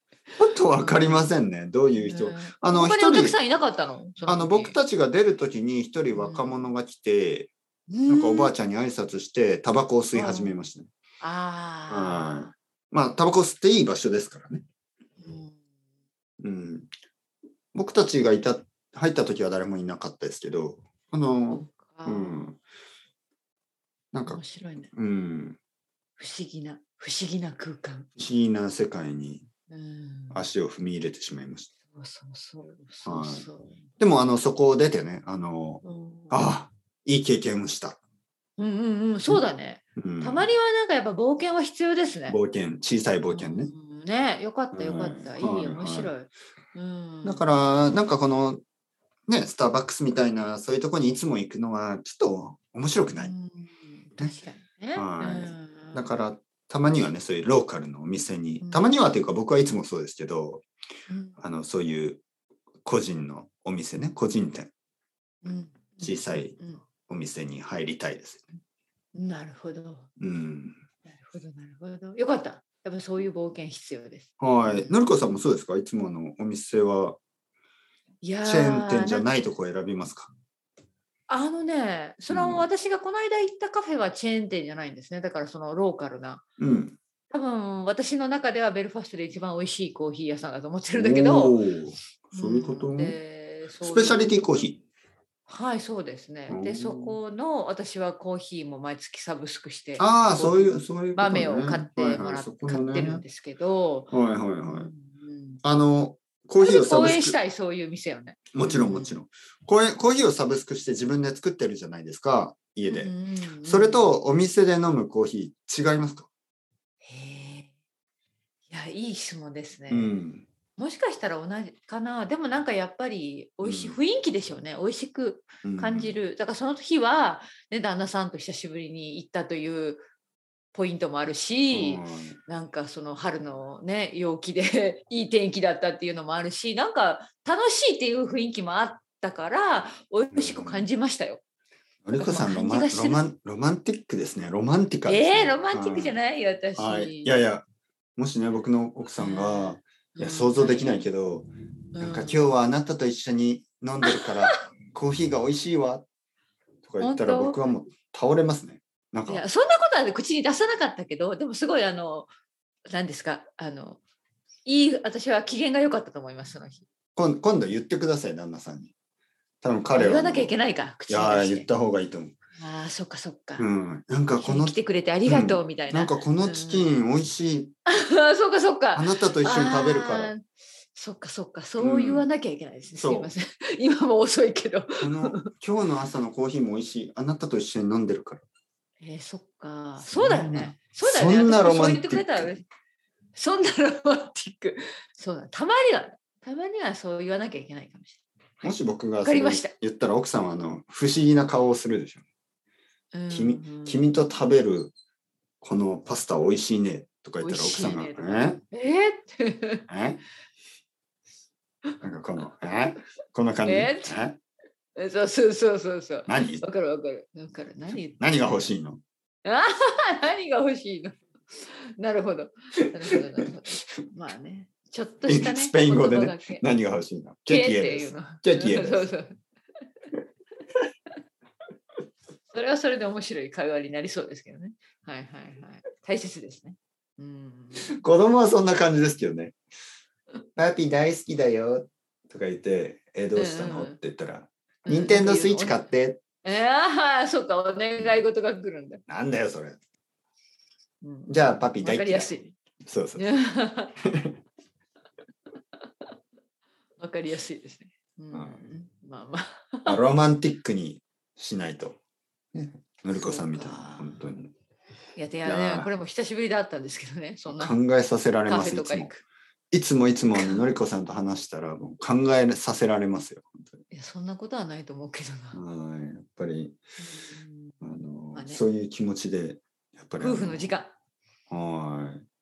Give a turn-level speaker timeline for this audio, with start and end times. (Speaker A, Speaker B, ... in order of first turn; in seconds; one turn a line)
Speaker A: 0.4-3.4
Speaker B: 0.8-1.3
Speaker B: 2.0-4.8
Speaker A: 4.3-7.5
Speaker B: 6.1-6.7
Speaker B: 7.9-8.5
Speaker A: 8.1-10.9
Speaker B: 10.1-10.6
Speaker B: 11.2-12.5
Speaker A: 11.9-14.6
Speaker B: 15.2-15.6
Speaker A: 16.4-16.9
Speaker A: 17.7-22.6
Speaker B: 21.5-22.5
Speaker A: 24.1-24.4
Speaker B: 24.3-24.9
Speaker A: 24.9-25.6
Speaker B: 26.2-28.1
Speaker A: 28.2-29.5
Speaker B: 29.7-30.5
Speaker A: 30.3-31.7
Speaker B: 31.9-33.8
Speaker A: 33.0-33.5
Speaker A: 34.0-38.0
Speaker B: 35.8-36.5
Speaker B: 38.6-42.4
Speaker A: 40.0-40.5
Speaker A: 42.3-43.7
Speaker B: 43.3-47.6
Speaker A: 44.7-46.1
Speaker A: 47.2-48.6
Speaker A: 49.3-53.3
Speaker B: 53.1-56.1
Speaker A: 55.0-60.6
Speaker B: 58.6-58.9
Speaker B: 61.1-61.4
Speaker A: 61.4-62.2
Speaker A: 62.9-64.7
Speaker B: 65.4-66.8
Speaker A: 66.0-68.5
Speaker B: 69.2-70.1
Speaker A: 70.2-70.8
Speaker B: 71.1-75.1
Speaker A: 74.4-77.2
Speaker B: 78.2-79.3
Speaker A: 78.4-80.3
Speaker B: 81.3-86.4
Speaker A: 82.3-82.7
Speaker A: 86.6-87.0
Speaker B: 87.3-91.6
Speaker A: 91.0-93.2
Speaker B: 92.3-94.4
Speaker A: 93.8-94.8
Speaker B: 95.5-104.1
Speaker A: 96.5-97.2
Speaker A: 100.0-103.2
Speaker A: 104.1-104.9
Speaker B: 104.6-105.6
Speaker A: 105.6-107.4
Speaker B: 106.6-109.2
Speaker A: 108.5-113.1
Speaker B: 112.9-114.1
Speaker A: 113.7-116.3
Speaker B: 117.0-117.7
Speaker B: 118.7-120.2
Speaker A: 119.9-120.5
Speaker B: 120.8-130.1
Speaker A: 123.6-124.0
Speaker A: 125.6-126.2
Speaker B: 130.7-141.4
Speaker A: 131.7-132.4
Speaker A: 140.3-140.9
Speaker A: 142.1-146.2
Speaker B: 142.1-143.2
Speaker B: 145.1-147.3
Speaker A: 146.8-147.6
Speaker A: 148.2-156.1
Speaker B: 149.2-151.1
Speaker B: 151.9-152.5
Speaker B: 154.0-154.6
Speaker A: 156.8-159.4
Speaker B: 157.0-157.7
Speaker B: 159.3-162.3
Speaker B: 162.9-164.0
Speaker B: 164.7-166.8
Speaker A: 167.2-168.9
Speaker A: 169.6-170.5
Speaker B: 169.9-171.7
Speaker A: 171.1-172.3
Speaker B: 172.6-173.7
Speaker A: 173.6-177.8
Speaker B: 174.4-176.9
Speaker B: 177.9-180.4
Speaker A: 178.9-180.3
Speaker B: 180.9-185.5
Speaker A: 181.8-182.3
Speaker A: 183.0-183.3
Speaker A: 185.0-188.4
Speaker B: 189.0-192.6
Speaker A: 190.0-192.5
Speaker B: 193.3-199.7
Speaker A: 198.6-202.2
Speaker B: 203.1-204.1
Speaker A: 203.3-204.9
Speaker A: 205.6-208.6
Speaker B: 207.4-209.9
Speaker A: 209.9-210.2
Speaker A: 212.0-214.4
Speaker B: 213.7-214.2
Speaker B: 215.0-218.7
Speaker A: 216.3-216.6
Speaker A: 217.9-219.0
Speaker B: 219.4-226.6
Speaker A: 225.3-229.1
Speaker B: 227.5-229.4
Speaker B: 232.5-237.9
Speaker A: 237.8-239.6
Speaker A: 240.6-246.2
Speaker B: 243.4-244.0
Speaker B: 244.9-245.9
Speaker B: 246.4-249.0
Speaker A: 249.1-249.8
Speaker B: 251.0-252.6
Speaker A: 251.3-252.3
Speaker A: 252.8-253.2
Speaker B: 253.2-254.0
Speaker A: 254.0-254.4
Speaker B: 257.0-260.0
Speaker A: 258.3-258.6
Speaker A: 259.9-262.0
Speaker A: 262.5-264.5
Speaker B: 263.1-264.3
Speaker B: 265.2-267.8
Speaker A: 265.4-265.9
Speaker A: 267.5-269.1
Speaker B: 268.5-269.2
Speaker A: 269.7-273.8
Speaker B: 270.4-270.6
Speaker B: 273.9-275.6
Speaker A: 275.5-276.8
Speaker B: 277.0-277.7
Speaker A: 277.8-280.7
Speaker B: 278.4-278.6
Speaker B: 280.2-280.9
Speaker A: 281.5-282.2